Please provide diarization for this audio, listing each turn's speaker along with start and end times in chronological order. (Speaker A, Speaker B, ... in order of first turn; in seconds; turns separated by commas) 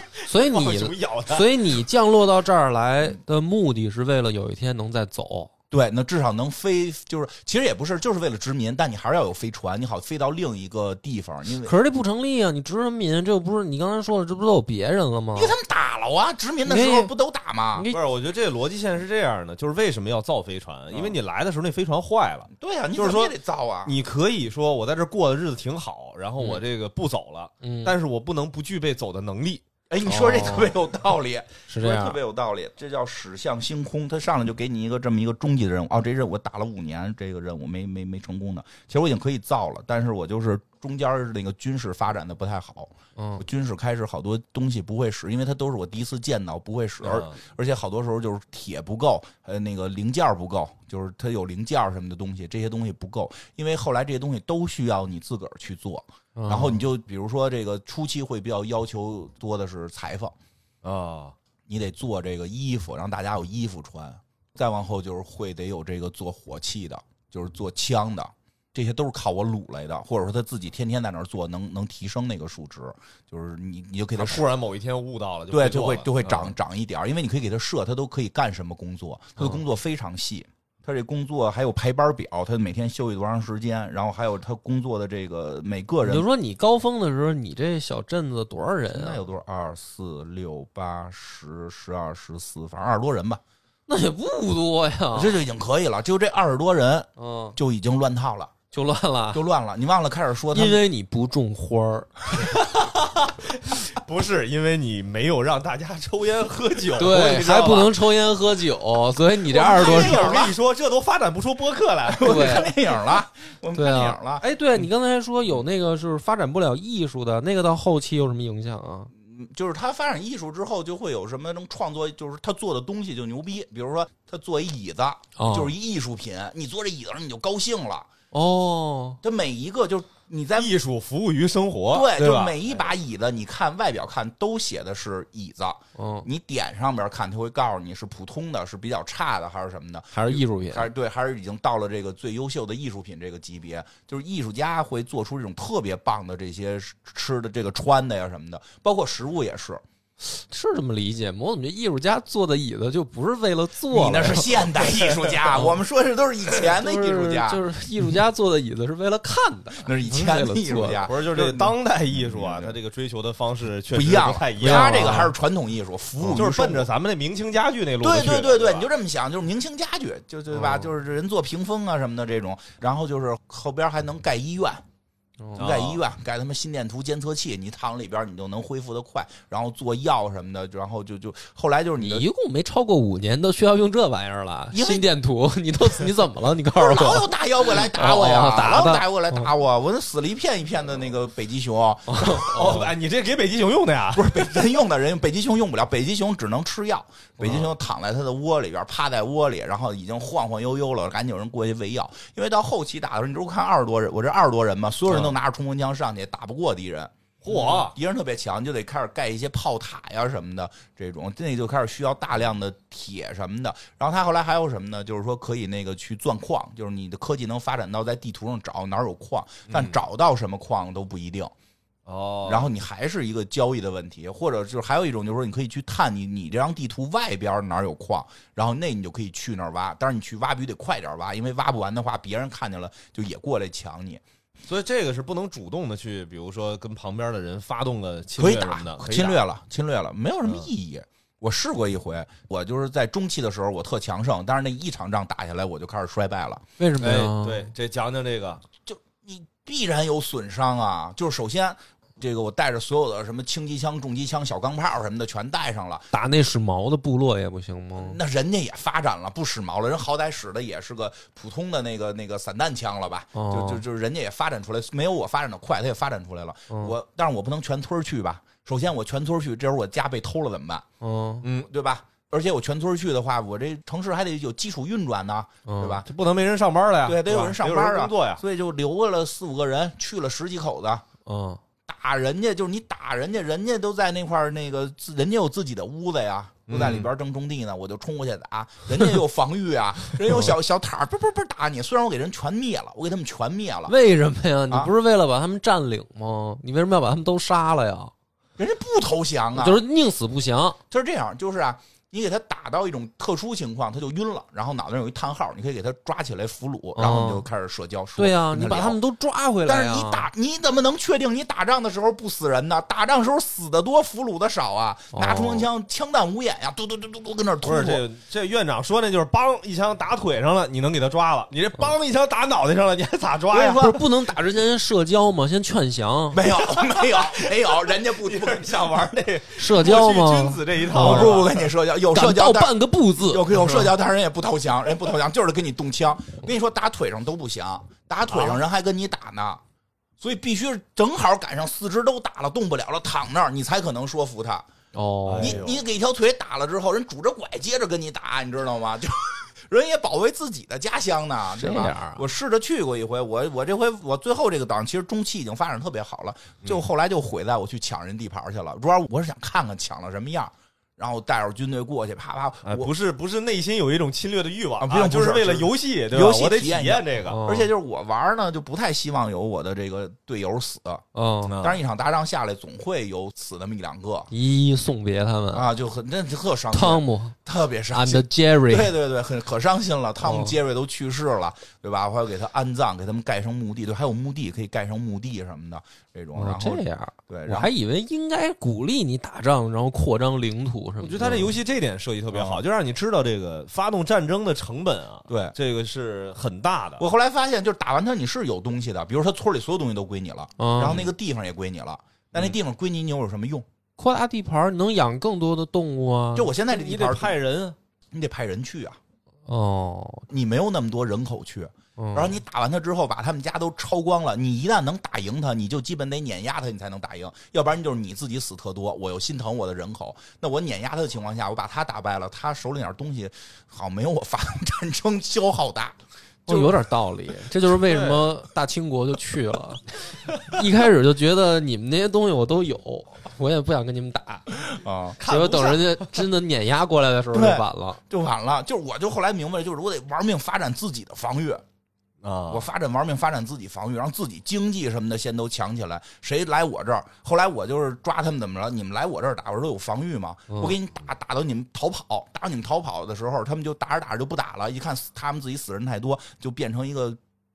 Speaker A: 0.2-1.5, Speaker B: 0.3-5.5, Speaker C: 5.7-11.7, Speaker B: 11.6-15.6, Speaker C: 15.3-17.9, Speaker B: 16.7-17.1, Speaker B: 17.7-18.0, Speaker A: 17.9-29.6, Speaker C: 22.5-24.0, Speaker B: 27.6-27.9, Speaker C: 29.9-60.4, Speaker B: 30.1-30.7, Speaker B: 31.7-32.2, Speaker B: 43.2-43.4, Speaker A: 47.0-47.4, Speaker B: 56.4-56.8, Speaker A: 60.8-61.4, Speaker C: 61.7-74.5, Speaker A: 74.2-76.5, Speaker C: 75.5-86.3, Speaker B: 86.0-89.2, Speaker C: 88.9-93.4, Speaker B: 93.9-95.4, Speaker C: 95.1-98.5, Speaker B: 97.2-97.6, Speaker B: 98.7-99.4, Speaker C: 99.3-100.8, Speaker B: 100.5-102.2, Speaker A: 102.5-108.0, Speaker B: 107.0-110.4, Speaker C: 109.5-110.6, Speaker A: 109.6-112.6, Speaker C: 112.1-114.4, Speaker B: 112.2-112.7, Speaker B: 113.8-119.1, Speaker C: 119.2-128.1, Speaker B: 125.4-125.7, Speaker B: 128.3-129.2, Speaker C: 129.2-130.7, Speaker A: 130.6-132.6, Speaker C: 131.9-149.8, Speaker B: 136.0-136.3, Speaker B: 140.1-140.9, Speaker B: 150.3-154.7, Speaker C: 153.9-157.6, Speaker A: 154.9-155.5, Speaker B: 156.8-161.0, Speaker C: 159.8-162.8, Speaker A: 161.0-165.3, Speaker C: 163.9-166.9, Speaker B: 164.6-165.3, Speaker A: 166.3-168.9, Speaker C: 168.0-174.8, Speaker B: 170.5-170.9, Speaker A: 175.6-176.0, Speaker C: 175.6-182.3, Speaker B: 182.0-189.5, Speaker C: 184.7-185.1, Speaker C: 186.7-192.9, Speaker B: 192.1-192.9, Speaker A: 192.5-194.4, Speaker C: 194.1-221.5, Speaker A: 197.4-197.7, Speaker A: 205.1-205.4, Speaker A: 207.4-208.0, Speaker A: 219.7-220.0, Speaker A: 222.1-222.7, Speaker C: 222.5-234.2, Speaker A: 234.7-239.4, Speaker C: 238.4-246.6, Speaker B: 246.8-247.7, Speaker A: 247.0-248.6, Speaker C: 248.9-256.1, Speaker B: 256.1-258.2, Speaker C: 258.0-270.9, Speaker B: 263.4-263.8, Speaker B: 271.0-271.5, Speaker A: 271.4-271.7, Speaker C: 271.6-276.1, Speaker B: 275.7-276.0, Speaker A: 276.1-278.4, Speaker C: 277.1-281.0, Speaker B: 281.3-281.6, Speaker C: 281.9-293.9, Speaker A: 286.7-287.1, Speaker B: 293.9-298.1, Speaker C: 298.6-299.8, Speaker B: 299.6-300.8, Speaker C: 300.9-309.0, Speaker B: 307.0-307.5, Speaker B: 308.2-310.3, Speaker C: 309.6-318.0, Speaker B: 315.1-315.7, Speaker A: 317.6-324.0, Speaker B: 323.5-326.4, Speaker C: 326.3-329.1, Speaker A: 326.6-331.7, Speaker B: 329.6-331.4, Speaker C: 330.9-339.6, Speaker B: 332.1-333.9, Speaker A: 338.3-338.6, Speaker C: 340.2-344.7, Speaker B: 344.9-345.6, Speaker A: 345.3-345.8, Speaker C: 345.4-362.9, Speaker B: 351.5-352.2, Speaker A: 362.6-367.4, Speaker C: 364.8-371.0, Speaker B: 367.3-367.7, Speaker B: 371.1-371.6, Speaker A: 371.5-371.8, Speaker C: 371.6-374.3, Speaker B: 374.3-375.7, Speaker C: 375.5-387.7, Speaker B: 376.7-377.4, Speaker B: 377.9-378.9, Speaker B: 380.2-380.6, Speaker B: 386.4-391.6, Speaker A: 391.0-397.1, Speaker C: 392.3-392.6, Speaker C: 395.3-395.6, Speaker C: 397.0-403.7, Speaker B: 400.6-401.1, Speaker A: 400.8-401.1, Speaker B: 404.0-406.5, Speaker C: 406.4-407.4, Speaker A: 406.7-407.8, Speaker C: 408.1-409.0, Speaker B: 409.5-410.3, Speaker C: 410.3-426.8, Speaker B: 412.0-412.4, Speaker B: 426.5-429.8, Speaker A: 427.8-428.3, Speaker B: 430.4-434.5, Speaker C: 434.6-435.2, Speaker A: 435.2-436.0, Speaker B: 435.3-438.0, Speaker C: 437.3-441.6, Speaker A: 442.2-442.7, Speaker C: 442.5-457.2, Speaker B: 450.5-450.8